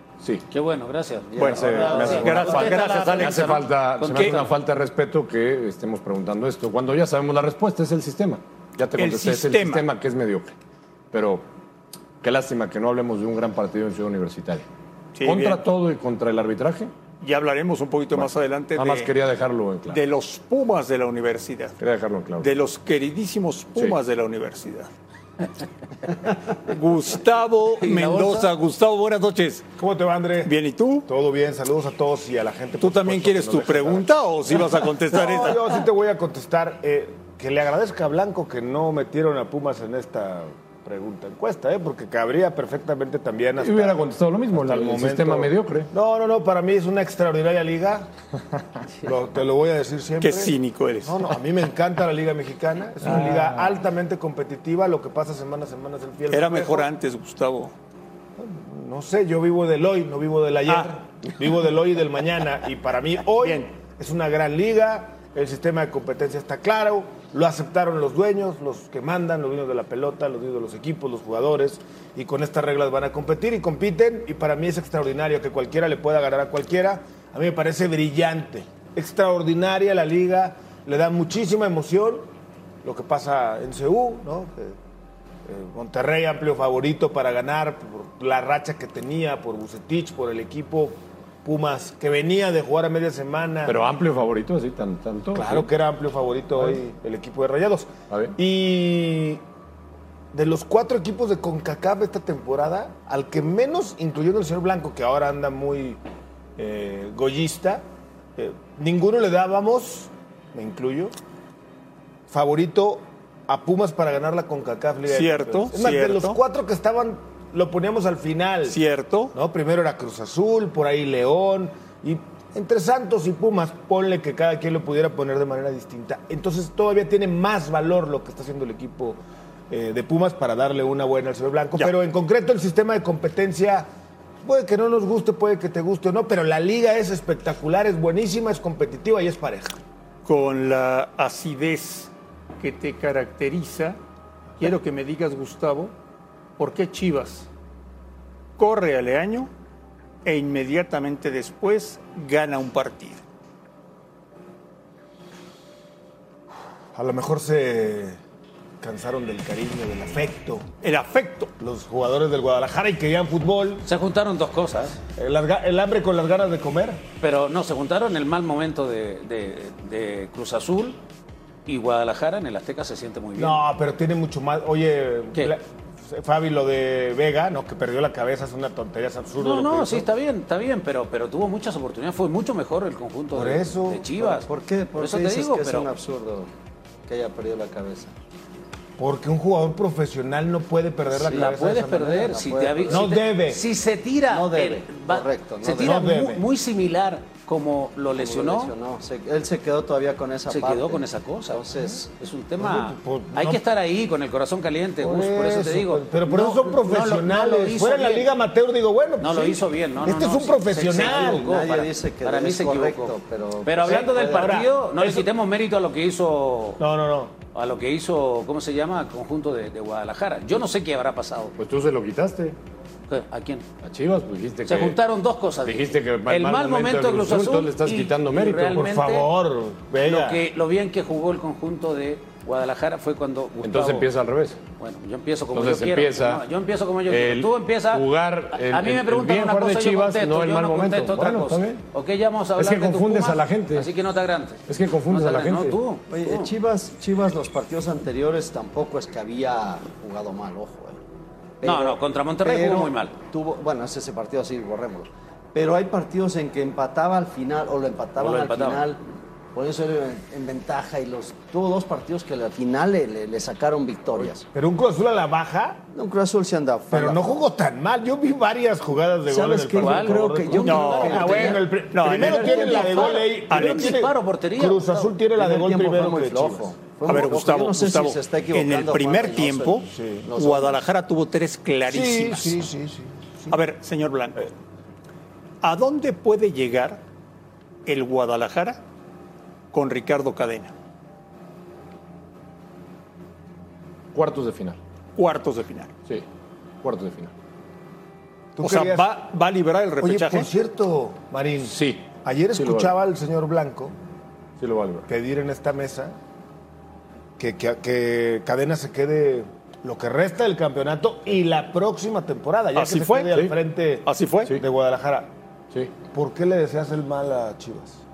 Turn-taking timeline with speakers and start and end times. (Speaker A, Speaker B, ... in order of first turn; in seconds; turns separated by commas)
Speaker A: 0.5-4.5, Speaker B: 1.3-2.7, Speaker C: 1.4-4.5, Speaker D: 1.4-10.5, Speaker C: 8.9-9.9, Speaker D: 11.1-11.4, Speaker D: 12.2-14.6, Speaker C: 15.2-15.7, Speaker D: 15.2-16.9, Speaker C: 17.2-19.1, Speaker D: 18.1-20.0, Speaker C: 19.9-21.8, Speaker D: 21.8-22.5, Speaker C: 22.4-24.9, Speaker C: 26.6-29.7, Speaker A: 28.0-28.4, Speaker E: 29.8-30.5, Speaker C: 30.4-31.1, Speaker E: 31.1-33.7, Speaker C: 32.8-35.8, Speaker D: 33.7-34.0, Speaker E: 35.1-48.1, Speaker D: 43.6-45.9, Speaker E: 49.0-56.9, Speaker C: 50.2-51.4, Speaker C: 53.0-53.8, Speaker C: 56.3-57.7, Speaker E: 58.4-82.3, Speaker C: 60.7-61.0, Speaker C: 63.4-63.7, Speaker E: 82.8-84.8, Speaker E: 85.5-93.8, Speaker D: 93.7-95.7, Speaker E: 95.3-99.4, Speaker E: 100.3-106.0, Speaker E: 106.6-107.8, Speaker E: 108.4-111.1, Speaker E: 112.3-118.8, Speaker C: 115.1-116.4, Speaker C: 118.7-119.3, Speaker E: 119.3-129.2, Speaker E: 129.7-133.9, Speaker E: 134.4-139.8, Speaker C: 140.2-144.0, Speaker C: 144.6-145.9, Speaker C: 146.6-147.5, Speaker C: 148.6-149.5, Speaker C: 150.2-153.2, Speaker E: 156.9-158.2, Speaker E: 158.8-160.7, Speaker C: 160.8-161.5, Speaker E: 161.6-163.8, Speaker A: 163.8-165.0, Speaker E: 165.1-167.0, Speaker A: 167.2-171.0, Speaker A: 171.7-173.6, Speaker E: 173.4-180.1, Speaker A: 179.4-185.9, Speaker E: 183.3-184.4, Speaker B: 184.4-186.5, Speaker B: 187.1-188.1, Speaker E: 189.0-192.3, Speaker A: 191.2-198.7, Speaker B: 192.1-193.1, Speaker E: 192.9-193.6, Speaker B: 194.3-196.0, Speaker E: 195.8-196.4, Speaker B: 198.1-202.1, Speaker A: 200.5-208.3, Speaker E: 202.6-203.6, Speaker E: 205.0-211.6, Speaker A: 209.2-216.8, Speaker B: 210.9-214.7, Speaker E: 213.8-215.3, Speaker E: 216.8-217.3, Speaker A: 217.5-221.5, Speaker D: 221.6-222.6, Speaker A: 223.1-223.7, Speaker D: 223.8-225.0, Speaker A: 224.7-229.3, Speaker D: 225.6-228.8, Speaker E: 228.7-230.4, Speaker A: 230.0-234.1, Speaker D: 233.6-234.6, Speaker A: 234.8-246.5, Speaker D: 235.5-236.4, Speaker D: 237.1-241.8, Speaker D: 242.6-243.9, Speaker D: 244.7-245.8, Speaker B: 246.1-251.0, Speaker B: 251.6-259.0, Speaker A: 251.6-253.1, Speaker A: 258.2-258.9, Speaker B: 259.5-264.4, Speaker E: 264.5-265.8, Speaker B: 265.9-267.4, Speaker E: 266.9-276.7, Speaker B: 269.3-271.7, Speaker A: 269.8-275.1, Speaker C: 270.6-274.0, Speaker B: 272.3-273.1, Speaker B: 275.4-280.8, Speaker C: 277.1-282.7, Speaker E: 279.9-280.3, Speaker E: 281.9-283.6, Speaker C: 283.5-284.5, Speaker C: 285.6-287.0, Speaker C: 287.9-288.8, Speaker C: 289.7-290.7, Speaker D: 294.1-294.8, Speaker C: 295.2-295.9, Speaker D: 296.8-297.3, Speaker E: 298.6-299.1, Speaker C: 298.6-300.5, Speaker E: 300.0-303.9, Speaker D: 301.7-302.9, Speaker D: 304.6-305.1, Speaker E: 305.1-306.2, Speaker E: 307.4-315.3, Speaker C: 312.8-313.4, Speaker C: 314.1-314.6, Speaker E: 316.1-318.0